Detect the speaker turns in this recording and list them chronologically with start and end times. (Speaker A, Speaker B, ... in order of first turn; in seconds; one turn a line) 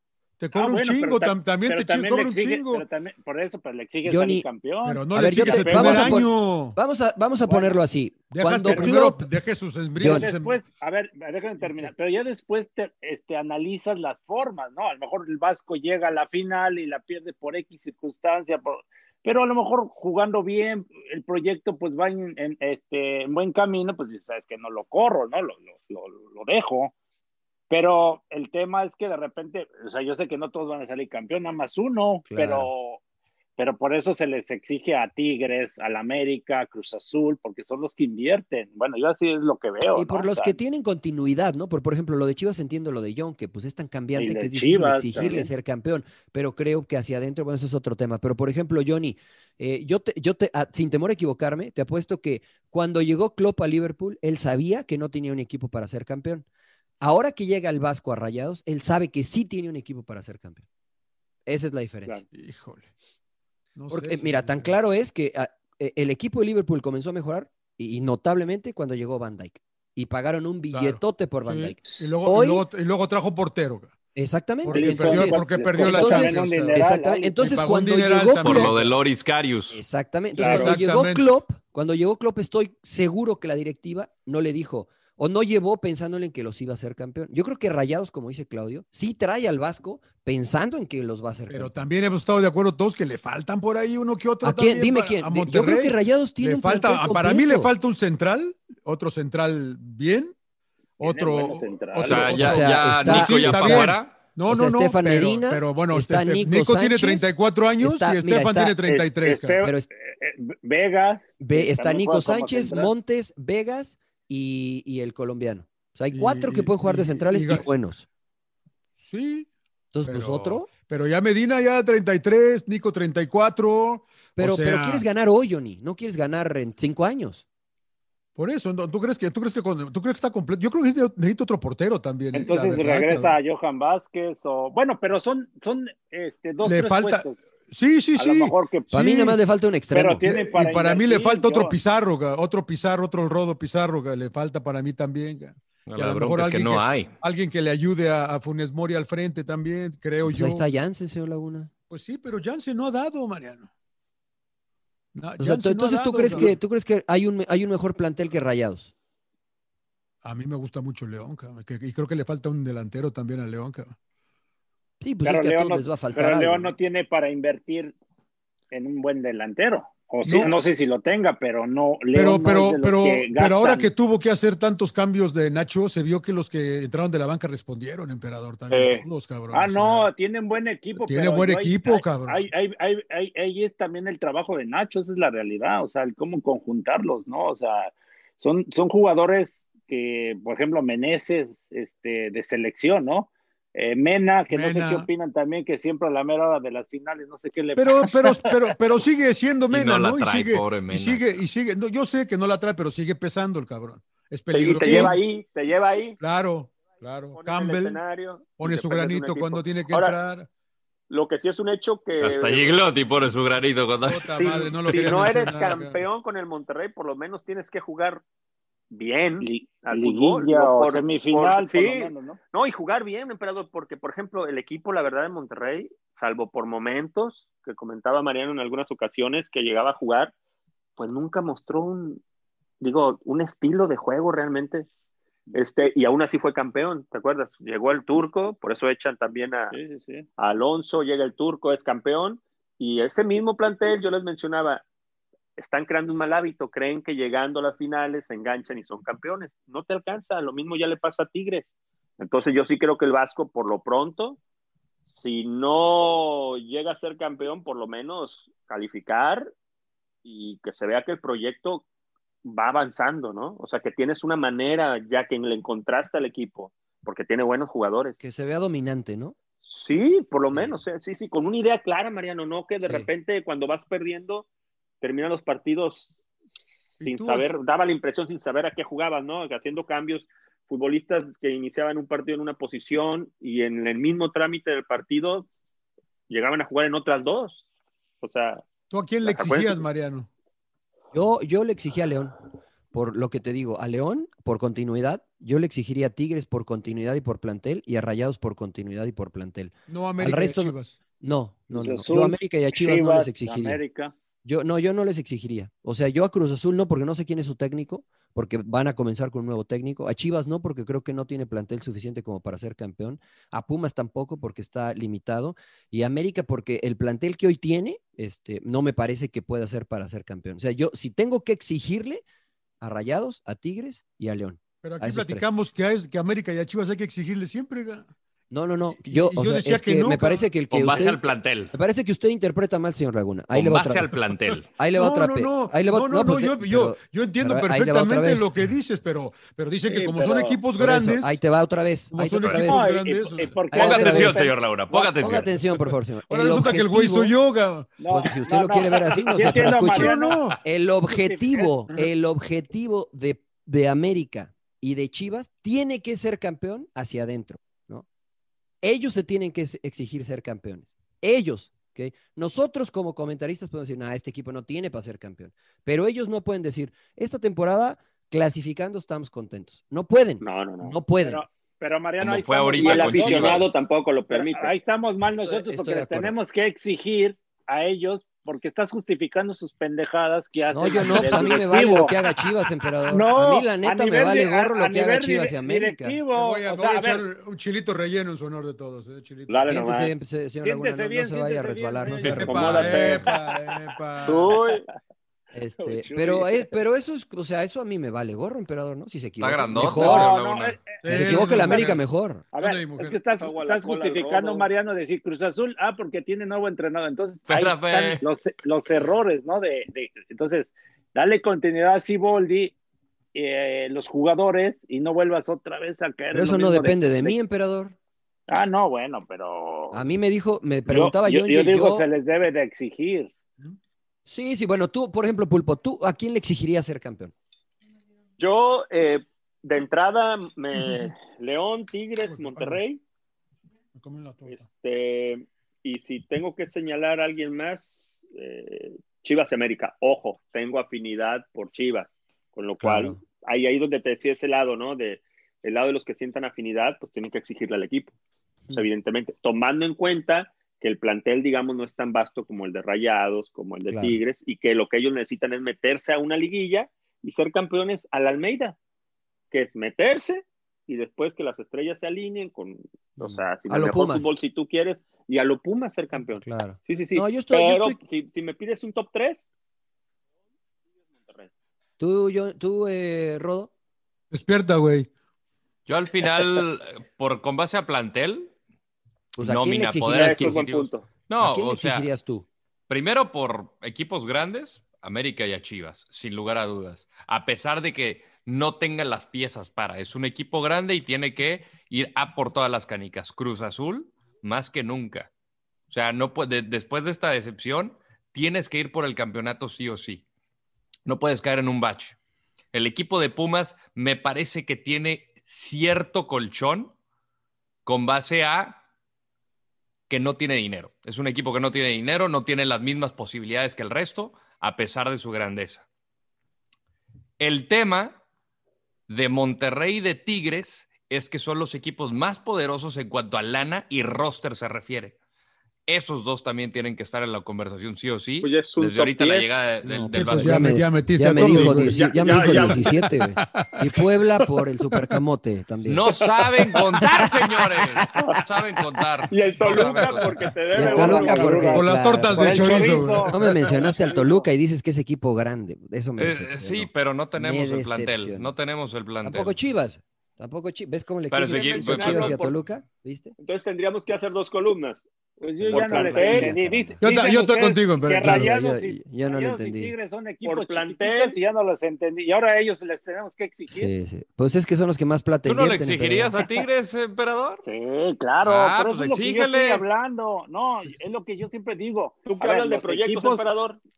Speaker A: 0.4-2.9
Speaker B: 0.5-6.2
Speaker C: 4.0-4.5
Speaker A: 4.8-6.8
Speaker C: 5.1-9.2
Speaker B: 7.5-7.8
Speaker A: 8.3-10.6
Speaker B: 8.7-9.0
Speaker C: 10.0-10.3
Speaker B: 10.0-26.9
Speaker B: 27.7-33.0
Speaker C: 32.3-32.7
Speaker B: 33.6-40.6
Speaker C: 39.9-56.5
Speaker B: 44.1-45.5
Speaker C: 57.0-60.7
Speaker C: 61.5-62.2
Speaker A: 62.3-62.9
Speaker A: 63.8-64.7
Speaker C: 63.9-72.7
Speaker A: 70.7-74.0
Speaker C: 74.2-78.7
Speaker A: 74.6-76.8
Speaker B: 74.7-77.5
Speaker A: 77.4-78.9
Speaker D: 78.4-79.8
Speaker C: 79.7-91.7
Speaker E: 80.4-80.8
Speaker A: 80.4-81.3
Speaker A: 91.5-100.3
Speaker C: 94.4-97.7
Speaker A: 101.0-109.7
Speaker B: 101.0-102.4
Speaker D: 102.0-104.2
Speaker C: 102.3-104.0
Speaker C: 104.5-108.8
Speaker B: 108.8-112.9
Speaker C: 109.6-109.9
Speaker C: 111.4-118.1
Speaker A: 116.1-117.7
Speaker A: 119.0-119.5
Speaker C: 119.9-120.7
Speaker A: 120.0-125.0
Speaker C: 124.4-127.4
Speaker A: 128.4-133.3
Speaker B: 132.3-137.4
Speaker A: 136.6-139.4
Speaker B: 138.2-138.9
Speaker C: 138.9-140.2
Speaker B: 139.9-141.8
Speaker A: 140.2-150.6
Speaker D: 145.9-147.2
Speaker C: 150.2-151.7
Speaker A: 151.9-153.7
Speaker A: 155.2-156.6
Speaker C: 155.4-158.9
Speaker A: 160.2-164.0
Speaker C: 165.0-166.8
Speaker B: 165.2-167.9
Speaker B: 168.7-173.9
Speaker A: 170.2-170.6
Speaker A: 172.1-180.1
Speaker E: 178.7-179.0
Speaker B: 179.5-198.6
Speaker A: 180.9-182.4
Speaker A: 194.5-195.1
Speaker A: 197.8-205.2
Speaker D: 199.7-201.4
Speaker E: 204.5-206.2
Speaker B: 204.7-205.2
Speaker A: 206.2-208.0
Speaker E: 207.3-210.2
Speaker A: 208.6-210.5
Speaker E: 211.1-212.8
Speaker D: 212.2-215.3
Speaker A: 214.0-216.0
Speaker E: 214.3-218.2
Speaker E: 218.9-230.3
Speaker B: 219.4-222.4
Speaker E: 231.0-232.2
Speaker E: 232.8-234.9
Speaker E: 235.5-239.8
Speaker B: 239.7-240.3
Speaker E: 240.4-244.8
Speaker E: 245.6-254.4
Speaker E: 255.1-259.5
Speaker E: 260.2-261.9
Speaker E: 262.4-268.2
Speaker C: 268.2-269.4
Speaker E: 269.6-274.5
Speaker C: 270.5-270.8
Speaker C: 272.8-273.1
Speaker E: 275.0-276.1
Speaker A: 277.0-277.6
Speaker E: 277.0-285.5
Speaker E: 286.3-287.6
Speaker E: 288.2-288.6
Speaker A: 288.9-290.3
Speaker E: 289.2-289.9
Speaker C: 291.1-292.4
Speaker C: 292.9-303.8
Speaker A: 299.9-301.0
Speaker B: 301.7-304.1
Speaker C: 304.4-322.2
Speaker C: 322.8-325.5
Speaker A: 324.8-328.1
Speaker C: 328.5-331.2
Speaker A: 328.9-330.5
Speaker D: 330.7-331.7
Speaker C: 331.7-334.1
Speaker D: 333.5-334.7
Speaker C: 334.7-338.5
Speaker A: 334.9-341.4
Speaker B: 339.8-340.6
Speaker C: 340.8-342.8
Speaker A: 342.1-343.7
Speaker D: 342.4-342.7
Speaker B: 342.6-345.2
Speaker C: 343.7-344.4
Speaker D: 343.7-345.6
Speaker C: 345.2-347.3
Speaker A: 345.8-348.1
Speaker B: 348.0-350.4
Speaker C: 348.1-358.1
Speaker A: 349.8-350.6
Speaker B: 351.1-351.7
Speaker C: 358.8-371.4
Speaker E: 370.4-371.0
Speaker B: 371.2-373.7
Speaker D: 372.2-373.8
Speaker E: 372.8-374.8
Speaker B: 374.3-382.1
Speaker C: 375.4-376.4
Speaker C: 380.7-386.2
Speaker E: 381.1-381.4
Speaker B: 383.1-387.3
Speaker A: 386.3-389.8
Speaker E: 389.5-390.1
Speaker C: 389.7-393.2
Speaker B: 390.6-393.9
Speaker A: 392.2-394.6
Speaker E: 392.4-393.3
Speaker E: 394.2-394.9
Speaker C: 395.5-400.3
Speaker B: 395.8-396.7
Speaker D: 399.4-400.8
Speaker B: 399.8-401.9
Speaker A: 401.0-403.2
Speaker C: 401.1-402.5
Speaker B: 402.6-412.7
Speaker E: 403.4-404.7
Speaker D: 407.5-408.2
Speaker B: 413.3-417.4
Speaker C: 416.3-418.0
Speaker B: 418.5-420.0
Speaker C: 419.9-422.1
Speaker B: 420.9-423.3
Speaker C: 424.3-427.3
Speaker E: 428.4-433.0
Speaker A: 430.8-431.1
Speaker A: 432.2-432.8
Speaker A: 433.9-434.6
Speaker E: 434.5-448.1
Speaker C: 442.8-443.2
Speaker E: 448.7-458.8
Speaker C: 453.9-454.2
Speaker E: 459.5-469.5
Speaker C: 463.2-464.3
Speaker C: 466.4-468.0
Speaker C: 472.0-473.7
Speaker A: 474.3-475.1
Speaker D: 475.9-478.5
Speaker C: 479.4-480.6
Speaker D: 479.4-482.1
Speaker E: 480.1-481.1
Speaker C: 481.4-482.5
Speaker D: 482.9-495.3
Speaker D: 495.9-500.2
Speaker D: 501.1-502.2
Speaker D: 502.7-506.9
Speaker D: 507.9-508.8
Speaker D: 510.1-515.9
Speaker D: 517.4-518.2
Speaker D: 519.1-525.1
Speaker D: 525.9-530.8
Speaker E: 528.4-529.6
Speaker C: 529.8-536.0
Speaker A: 530.1-534.0
Speaker E: 531.6-533.0
Speaker D: 535.9-540.4
Speaker C: 537.2-537.9
Speaker E: 539.3-541.8
Speaker C: 540.7-548.5
Speaker B: 540.8-544.5
Speaker A: 541.2-543.7
Speaker D: 546.2-549.5
Speaker C: 549.2-553.4
Speaker D: 551.3-552.4
Speaker E: 551.4-552.6
Speaker E: 553.4-556.5
Speaker B: 555.4-563.9
Speaker C: 555.6-557.0
Speaker A: 557.0-558.5
Speaker C: 558.2-559.9
Speaker E: 560.5-561.4
Speaker C: 563.7-566.4
Speaker D: 565.5-567.6
Speaker B: 567.6-573.5
Speaker D: 568.4-569.9
Speaker E: 572.3-573.8